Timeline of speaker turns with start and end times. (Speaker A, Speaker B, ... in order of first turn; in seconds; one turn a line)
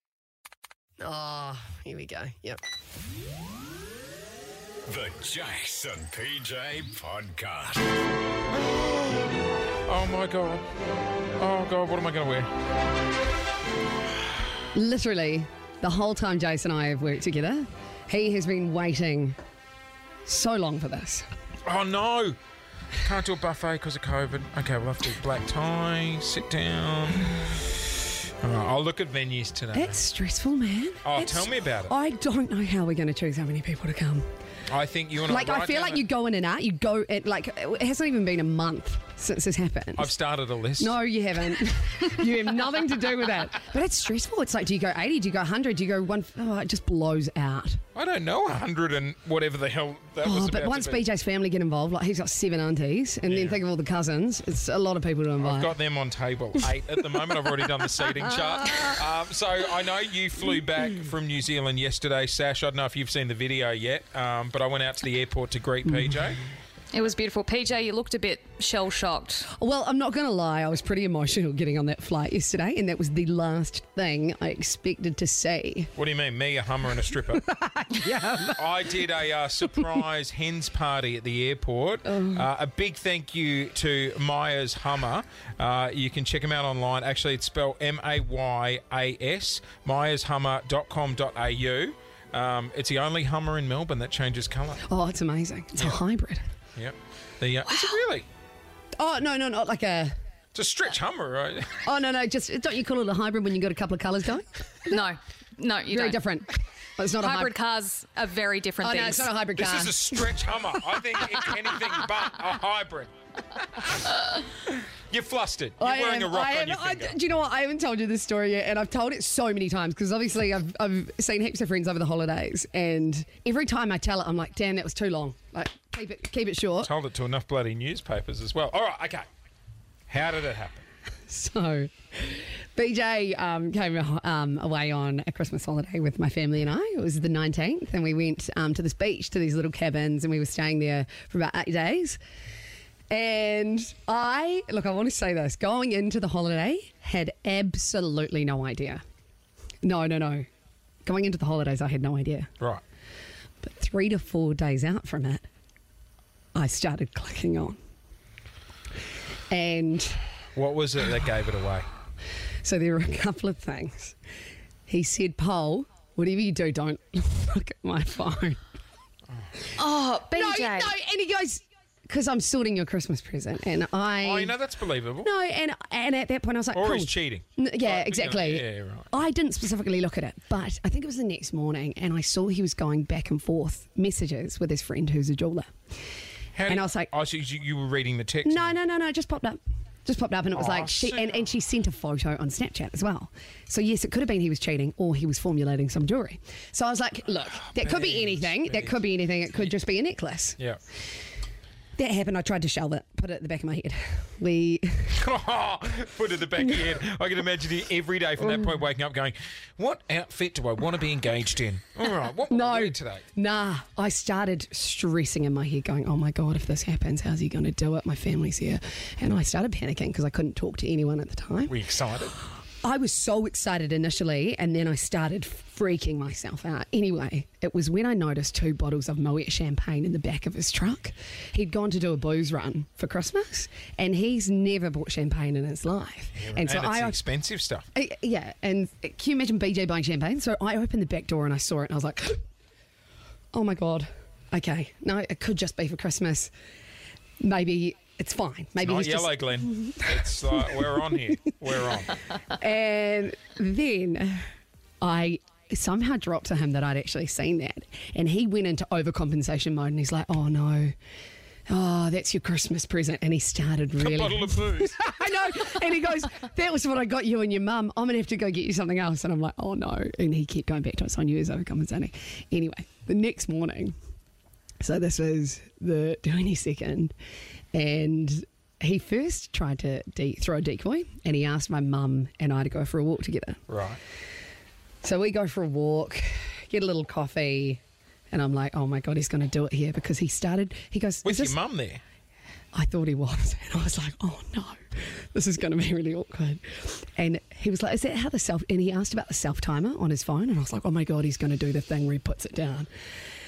Speaker A: 1.0-2.6
Speaker B: 4.9-7.8
Speaker C: 9.8-10.7
Speaker C: 11.4-12.5
Speaker A: 14.7-19.4
Speaker A: 20.2-21.2
Speaker C: 21.6-22.4
Speaker C: 22.9-27.4
Speaker C: 28.4-30.0
Speaker A: 29.7-34.2
Speaker C: 31.0-31.9
Speaker C: 34.7-36.1
Speaker A: 35.3-40.1
Speaker C: 40.0-41.0
Speaker A: 40.8-47.8
Speaker C: 47.9-51.0
Speaker A: 50.2-55.7
Speaker C: 53.2-53.6
Speaker C: 55.4-66.4
Speaker A: 58.1-59.0
Speaker A: 65.8-66.2
Speaker D: 66.9-69.5
Speaker A: 69.5-75.9
Speaker C: 76.0-77.4
Speaker A: 77.3-78.6
Speaker C: 78.5-94.8
Speaker A: 82.0-82.5
Speaker A: 94.8-96.4
Speaker C: 96.7-98.2
Speaker D: 97.7-98.0
Speaker A: 99.0-100.1
Speaker C: 100.5-101.8
Speaker A: 101.8-105.0
Speaker D: 104.9-106.2
Speaker A: 105.9-107.5
Speaker D: 107.2-109.3
Speaker A: 108.8-110.0
Speaker C: 109.5-113.9
Speaker C: 115.1-117.2
Speaker A: 115.8-126.9
Speaker C: 126.8-129.2
Speaker C: 130.1-130.8
Speaker A: 131.3-142.2
Speaker A: 143.1-149.0
Speaker A: 149.8-150.4
Speaker A: 151.0-152.5
Speaker A: 153.6-155.4
Speaker A: 156.5-157.8
Speaker A: 159.5-160.2
Speaker C: 160.5-161.9
Speaker A: 162.6-164.1
Speaker A: 164.9-168.6
Speaker D: 169.8-170.9
Speaker A: 170.3-174.5
Speaker C: 174.2-175.3
Speaker A: 175.2-185.7
Speaker C: 176.7-179.1
Speaker C: 186.5-188.8
Speaker A: 186.7-187.1
Speaker A: 188.4-200.6
Speaker C: 190.5-191.4
Speaker C: 197.6-199.0
Speaker A: 202.0-205.1
Speaker C: 205.1-213.2
Speaker A: 208.4-208.7
Speaker A: 212.5-221.7
Speaker C: 221.7-222.4
Speaker A: 222.8-237.2
Speaker C: 236.3-237.9
Speaker A: 237.9-242.4
Speaker A: 243.5-246.5
Speaker A: 247.4-250.0
Speaker C: 248.8-252.2
Speaker A: 252.4-254.4
Speaker A: 255.0-260.9
Speaker A: 261.7-273.9
Speaker C: 264.0-265.5
Speaker A: 274.8-277.1
Speaker A: 277.7-283.6
Speaker C: 283.7-284.0
Speaker A: 285.0-287.8
Speaker A: 288.3-291.6
Speaker C: 291.2-292.0
Speaker A: 292.7-302.9